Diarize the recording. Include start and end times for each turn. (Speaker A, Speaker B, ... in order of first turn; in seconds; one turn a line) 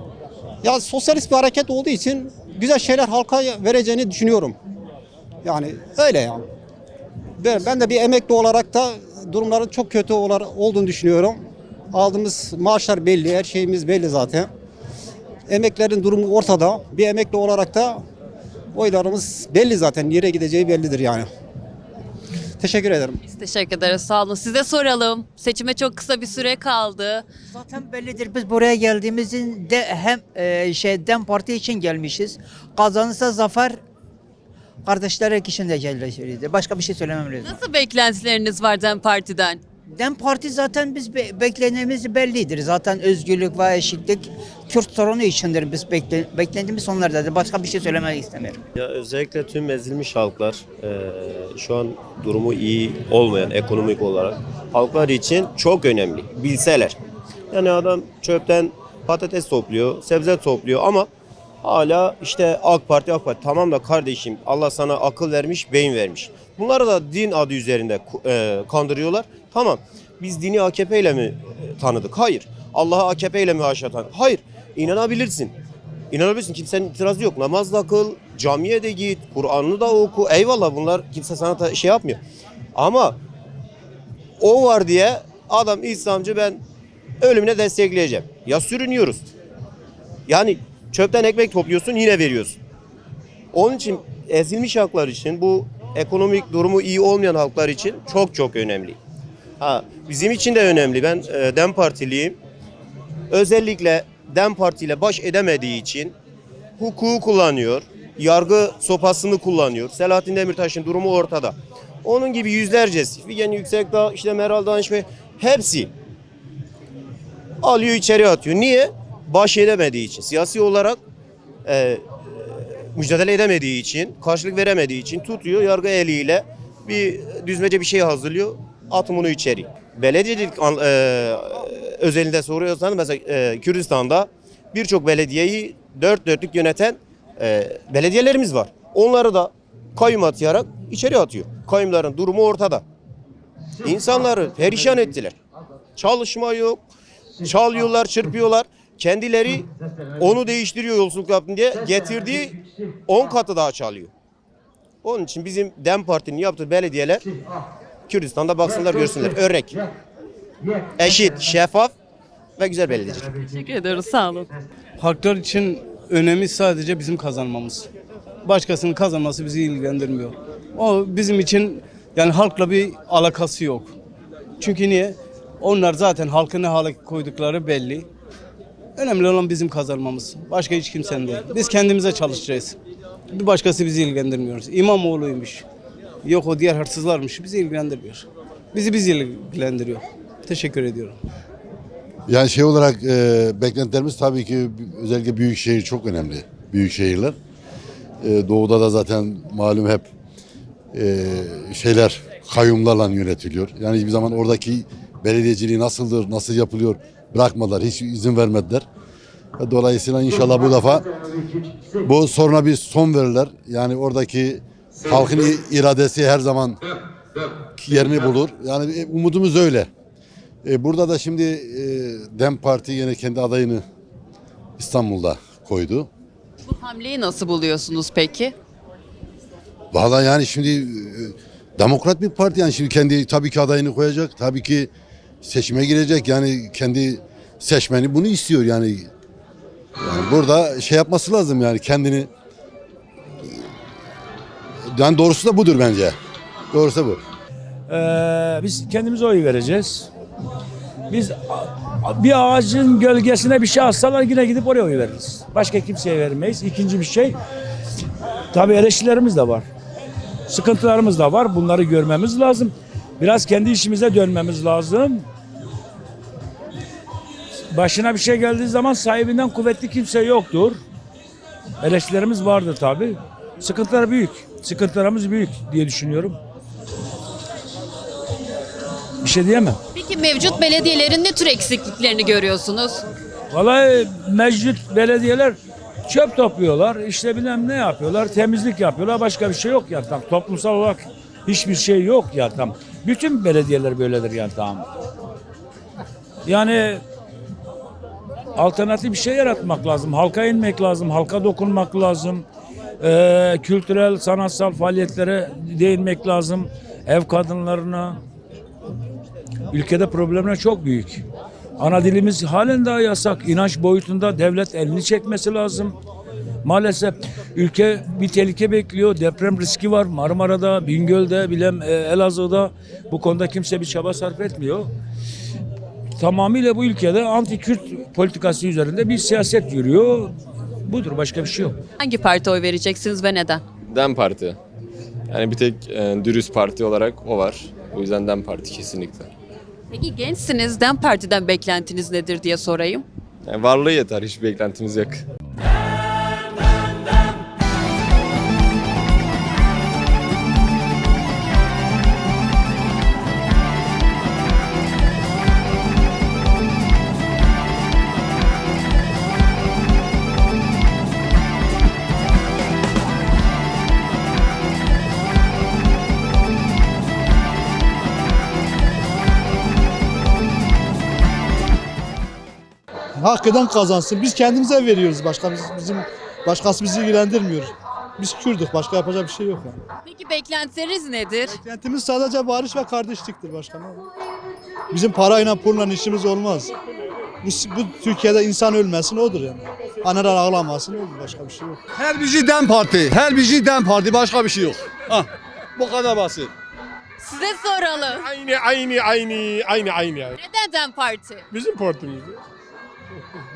Speaker A: 0.6-4.6
Speaker A: 5.4-6.5
Speaker A: 7.4-14.5
Speaker A: 15.5-18.0
Speaker A: 18.7-21.3
Speaker A: 22.6-23.2
Speaker B: 23.2-27.2
Speaker C: 27.5-33.8
Speaker C: 34.8-37.5
Speaker B: 37.4-39.6
Speaker C: 39.9-48.6
Speaker D: 48.8-57.0
Speaker D: 57.5-61.1
Speaker D: 61.6-75.5
Speaker D: 76.1-82.2
Speaker D: 82.7-83.2
Speaker D: 84.4-86.6
Speaker D: 87.2-89.3
Speaker D: 90.3-92.6
Speaker D: 93.5-99.0
Speaker D: 99.6-102.4
Speaker D: 103.3-106.1
Speaker D: 106.8-115.9
Speaker D: 117.6-121.0
Speaker D: 121.6-142.8
Speaker D: 143.8-145.4
Speaker D: 145.9-146.8
Speaker D: 147.4-149.7
Speaker D: 150.2-154.1
Speaker D: 155.0-157.3
Speaker D: 158.1-159.8
Speaker D: 161.0-161.9
Speaker D: 162.6-163.3
Speaker B: 163.5-164.5
Speaker E: 165.0-167.9
Speaker E: 168.4-173.9
Speaker E: 174.6-178.1
Speaker E: 179.0-182.8
Speaker E: 183.3-185.6
Speaker E: 186.2-191.2
Speaker F: 192.3-197.4
Speaker F: 198.2-200.1
Speaker F: 200.9-208.8
Speaker F: 209.6-211.1
Speaker F: 212.0-216.8
Speaker F: 217.8-219.9
Speaker F: 220.6-223.8
Speaker F: 224.8-226.1
Speaker B: 226.7-228.5
Speaker F: 229.9-234.9
Speaker F: 235.4-239.1
Speaker F: 240.0-242.3
Speaker F: 244.9-246.2
Speaker F: 246.7-247.2
Speaker G: 247.9-250.1
Speaker G: 251.1-257.4
Speaker G: 258.5-259.7
Speaker G: 260.5-265.3
Speaker G: 267.7-270.8
Speaker G: 271.8-276.4
Speaker G: 279.2-279.8
Speaker B: 279.9-283.0
Speaker G: 283.5-294.9
Speaker G: 296.4-297.0
Speaker G: 298.5-302.4
Speaker G: 303.0-308.2
Speaker G: 309.7-311.2
Speaker G: 311.8-316.0
Speaker G: 316.6-324.9
Speaker G: 326.2-331.8
Speaker B: 332.0-333.6
Speaker H: 333.9-334.6
Speaker H: 335.3-339.3
Speaker B: 339.9-343.0
Speaker H: 343.5-345.2
Speaker I: 373.2-379.8
Speaker B: 380.0-381.6
Speaker I: 381.6-384.0
Speaker I: 384.9-386.7
Speaker I: 387.4-391.8
Speaker J: 391.9-396.5
Speaker B: 397.2-398.2
Speaker K: 398.1-400.4
Speaker B: 400.4-401.4
Speaker K: 401.5-402.4